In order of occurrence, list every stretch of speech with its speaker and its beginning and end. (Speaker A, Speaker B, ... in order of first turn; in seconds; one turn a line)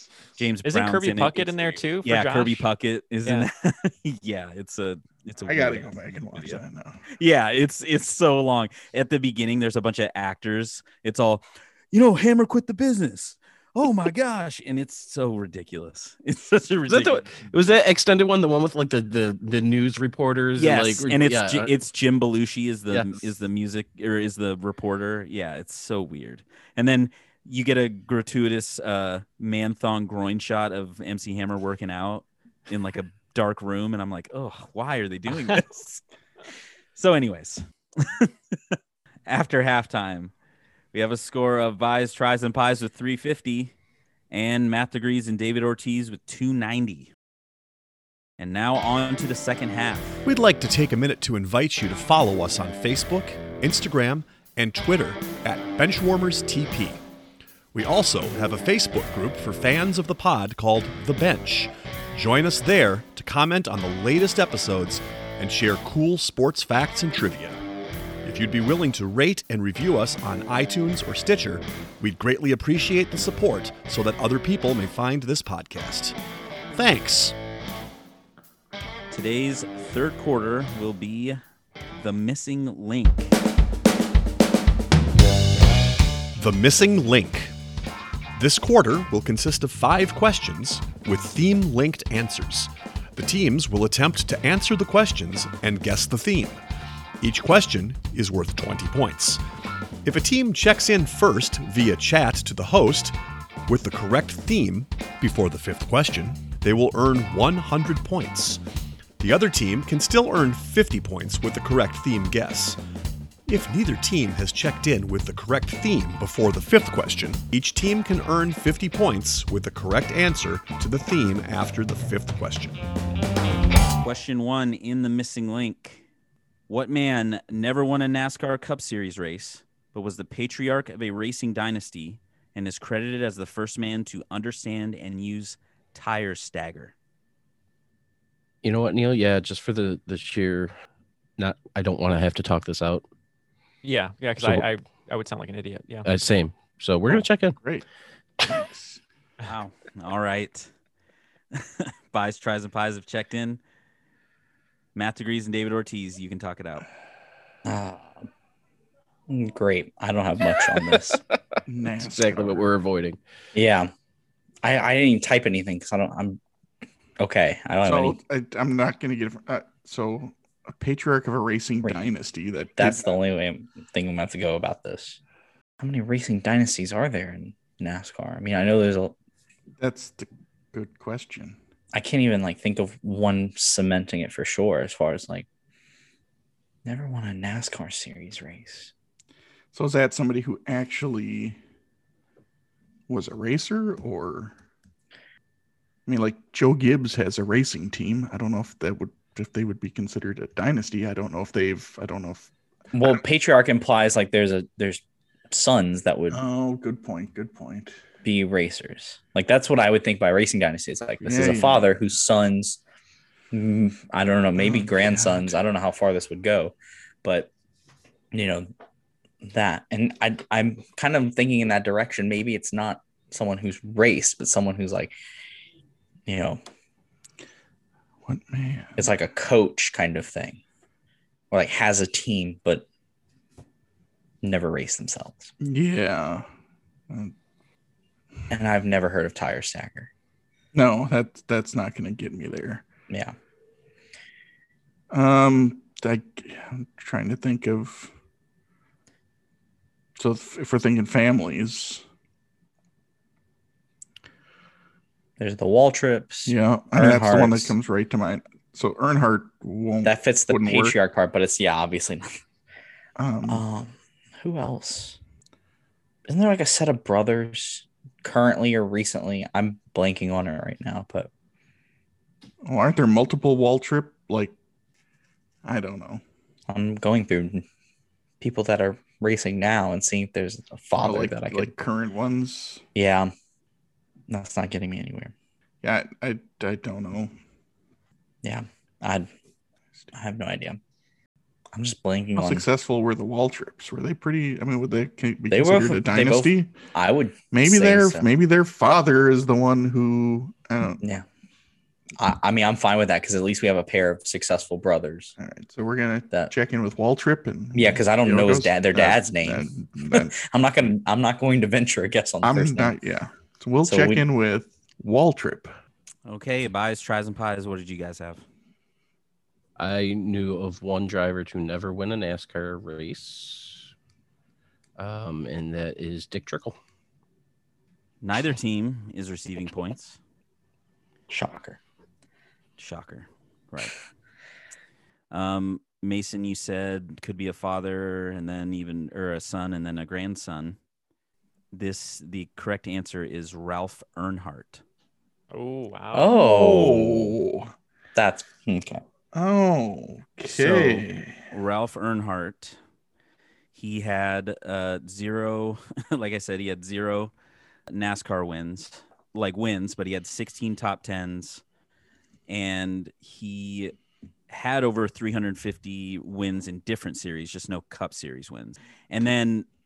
Speaker A: 0.3-6.6
Speaker B: 0.6-2.6
Speaker C: 5.4-7.0
Speaker A: 7.2-17.5
Speaker D: 16.9-21.7
Speaker A: 20.6-36.0
Speaker D: 22.9-23.2
Speaker A: 37.0-38.8
Speaker A: 39.3-40.3
Speaker A: 40.9-43.7
Speaker A: 44.3-47.1
Speaker A: 48.4-50.2
Speaker E: 50.2-57.0
Speaker E: 57.7-67.6
Speaker E: 68.2-76.2
Speaker E: 76.7-77.4
Speaker A: 79.1-81.4
Speaker A: 82.0-83.3
Speaker E: 86.3-87.5
Speaker E: 88.3-96.6
Speaker E: 97.2-99.4
Speaker E: 100.0-108.6
Speaker E: 109.2-112.8
Speaker E: 113.5-122.8
Speaker A: 124.0-126.0
Speaker A: 126.7-136.9
Speaker D: 138.6-140.7
Speaker D: 141.4-143.0
Speaker B: 143.8-146.1
Speaker D: 144.4-144.6
Speaker D: 146.0-147.6
Speaker C: 147.1-147.8
Speaker C: 148.4-149.0
Speaker A: 149.5-150.7
Speaker A: 151.5-153.6
Speaker A: 154.9-156.8
Speaker F: 157.6-158.2
Speaker F: 159.3-161.2
Speaker D: 160.8-163.2
Speaker C: 161.7-162.7
Speaker F: 163.5-163.9
Speaker F: 164.6-166.4
Speaker F: 167.2-168.2
Speaker C: 167.8-173.1
Speaker F: 172.8-175.2
Speaker F: 175.8-179.2
Speaker C: 179.8-181.6
Speaker F: 181.9-185.5
Speaker F: 186.8-188.9
Speaker C: 189.7-191.6
Speaker C: 193.1-194.5
Speaker C: 196.1-202.5
Speaker F: 202.9-206.4
Speaker C: 206.3-207.9
Speaker F: 208.2-212.8
Speaker C: 211.2-211.8
Speaker F: 213.5-217.5
Speaker C: 214.6-215.5
Speaker F: 218.3-218.7
Speaker F: 219.4-225.1
Speaker F: 226.3-226.6
Speaker C: 228.2-229.1
Speaker F: 229.0-230.6
Speaker F: 231.5-232.8
Speaker F: 234.4-235.5
Speaker C: 235.6-236.5
Speaker C: 237.1-237.3
Speaker F: 238.5-240.1
Speaker C: 240.7-242.8
Speaker F: 243.1-243.3
Speaker C: 245.1-248.1
Speaker C: 250.2-252.0
Speaker F: 255.4-257.7
Speaker C: 256.5-260.9
Speaker F: 260.0-262.3
Speaker C: 263.2-263.6
Speaker F: 263.5-265.2
Speaker F: 266.3-271.3
Speaker C: 272.6-274.5
Speaker C: 275.6-276.2
Speaker F: 276.7-277.6
Speaker F: 278.4-281.7
Speaker C: 281.0-282.8
Speaker F: 282.9-283.3
Speaker F: 284.3-285.3
Speaker C: 285.8-287.3
Speaker F: 288.4-289.3
Speaker F: 290.1-290.8
Speaker F: 291.7-292.6
Speaker C: 292.4-296.7
Speaker F: 295.5-298.3
Speaker C: 297.5-301.0
Speaker F: 302.2-305.4
Speaker C: 305.4-310.3
Speaker F: 307.7-312.9
Speaker C: 312.4-315.7
Speaker F: 313.8-314.2
Speaker A: 316.2-318.4
Speaker D: 319.8-323.9
Speaker D: 325.0-326.8
Speaker A: 328.2-330.2
Speaker F: 331.3-331.8
Speaker A: 332.8-334.0
Speaker A: 335.3-340.8
Speaker A: 341.7-344.8
Speaker B: 345.5-346.3
Speaker F: 346.1-347.3
Speaker C: 346.3-347.7
Speaker F: 348.1-349.0
Speaker C: 349.3-351.4
Speaker A: 350.5-352.8
Speaker A: 353.7-357.3
Speaker A: 357.9-361.6
Speaker A: 362.5-363.9
Speaker A: 364.5-369.6